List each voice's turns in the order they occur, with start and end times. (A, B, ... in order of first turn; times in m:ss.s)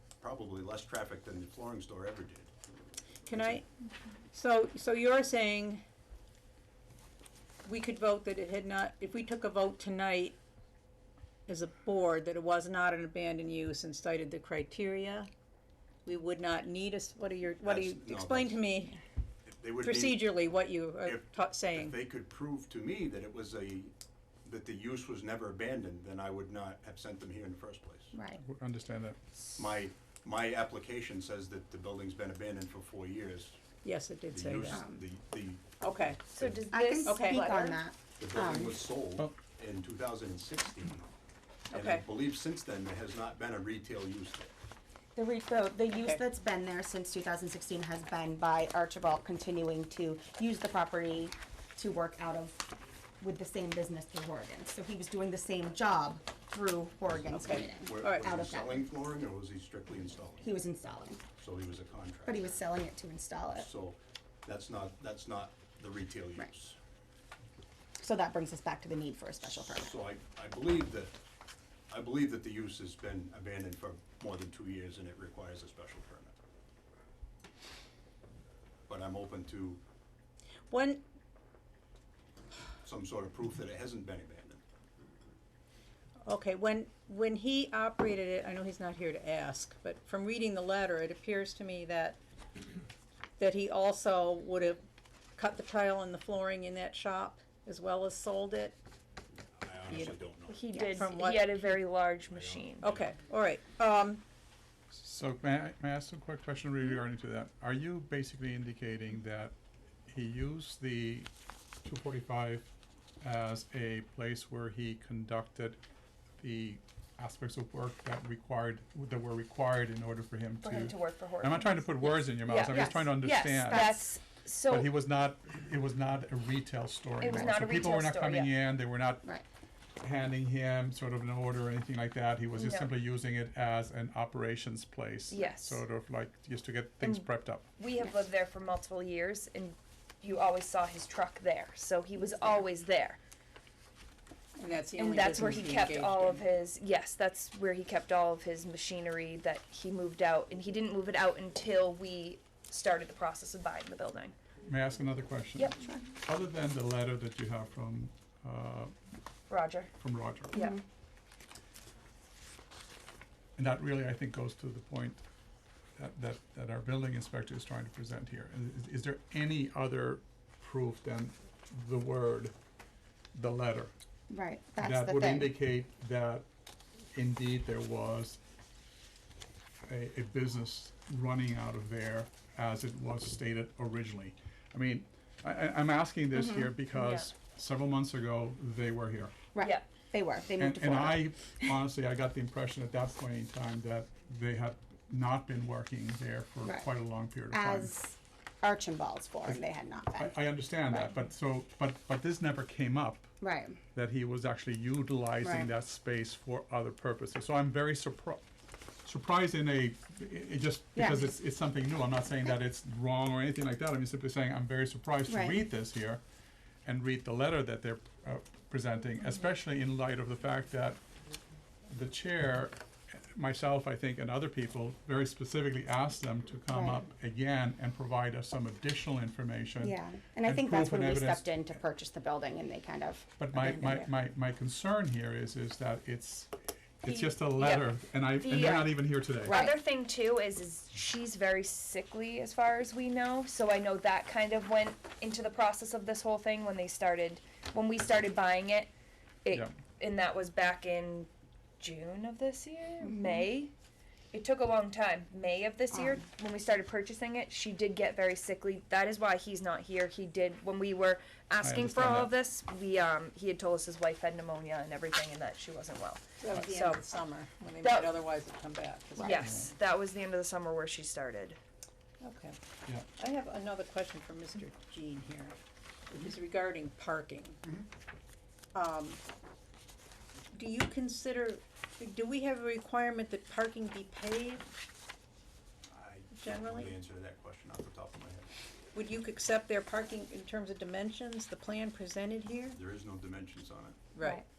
0:00.2-0:02.5 A
0:03.3-0:03.6 A
0:03.3-0:03.7 B
0:04.3-0:05.8 B
0:07.6-0:10.4 B
0:11.5-0:15.3 B
0:16.1-0:19.0 B
0:17.6-0:18.7 A
0:19.5-0:20.4 A
0:19.8-0:22.0 B
0:21.0-0:23.9 A
0:24.4-0:28.1 A
0:28.1-0:28.4 C
0:28.3-0:29.2 D
0:29.6-0:33.6 A
0:33.8-0:34.8 B
0:34.3-0:35.7 A
0:34.7-0:35.0 C
0:35.8-0:36.3 B
0:36.3-0:37.8 E
0:36.4-0:36.6 A
0:36.7-0:38.9 C
0:37.0-0:37.5 B
0:38.2-0:41.1 A
0:41.7-0:42.0 B
0:41.7-0:44.5 A
0:45.2-0:52.6 C
0:45.9-0:46.2 B
0:53.2-0:58.8 C
0:57.1-1:00.5 A
0:57.4-0:58.2 B
1:00.4-1:01.2 C
1:01.4-1:02.5 A
1:02.2-1:03.7 C
1:03.6-1:06.8 A
1:08.0-1:10.0 C
1:09.5-1:11.1 A
1:11.9-1:16.4 A
1:18.9-1:19.8 A
1:20.7-1:21.0 B
1:22.8-1:24.6 A
1:26.2-1:32.2 B
1:33.4-1:34.8 B
1:35.4-1:38.8 B
1:39.6-1:40.6 A
1:39.9-1:40.2 B
1:40.5-1:42.9 E
1:40.7-1:41.1 C
1:41.0-1:41.6 B
1:42.3-1:43.1 A
1:42.8-1:44.2 B
1:44.9-1:49.5 D
1:50.1-1:51.3 D
1:51.8-1:52.7 D
1:53.2-1:55.8 D
1:56.4-2:04.0 D
2:00.6-2:04.9 E
2:02.0-2:04.1 C
2:04.7-2:09.3 D
2:07.2-2:08.5 E
2:07.2-2:07.8 C
2:10.0-2:17.7 D
2:12.6-2:12.9 E
2:15.3-2:15.8 E
2:17.8-2:23.2 E
2:24.6-2:26.4 B
2:25.0-2:34.4 E
2:34.6-2:38.9 D
2:39.5-2:39.9 E
2:40.0-2:40.6 D
2:40.5-2:40.8 E
2:40.5-2:40.8 C
2:43.6-2:45.2 D
2:46.0-2:52.5 D
2:53.3-2:53.9 D
2:54.3-2:55.5 C
2:54.8-2:56.5 D
2:57.2-2:58.4 D
2:59.9-3:09.5 D
3:06.3-3:06.8 C
3:07.0-3:07.3 E
3:09.5-3:11.2 C
3:09.6-3:09.9 E
3:10.6-3:18.0 D
3:17.5-3:20.4 C
3:20.2-3:23.3 D
3:23.4-3:23.8 C
3:23.9-3:28.4 D
3:25.4-3:25.7 C
3:29.0-3:36.2 D
3:31.0-3:31.4 C
3:35.3-3:35.6 C
3:36.8-3:41.0 D
3:41.9-3:51.7 D
3:46.7-3:47.0 C
3:49.8-3:53.3 C
3:53.4-3:59.6 D
3:57.0-3:58.9 E
3:59.4-3:59.8 C
3:59.5-4:08.9 E
4:09.4-4:13.7 E
4:09.5-4:09.8 D
4:13.0-4:13.5 C
4:14.3-4:27.0 E
4:15.9-4:16.2 C
4:21.6-4:22.4 D
4:26.4-4:29.6 B
4:27.8-4:28.1 E
4:29.2-4:31.6 E
4:29.4-4:29.7 D
4:32.2-4:32.6 B
4:33.2-4:35.6 B
4:36.1-4:37.6 B
4:38.7-4:39.2 B
4:40.5-4:44.7 B
4:45.9-4:48.5 A
4:46.4-4:46.9 B
4:48.9-4:52.8 B
4:52.7-4:54.0 A
4:54.1-4:54.4 B
4:54.2-4:54.4 C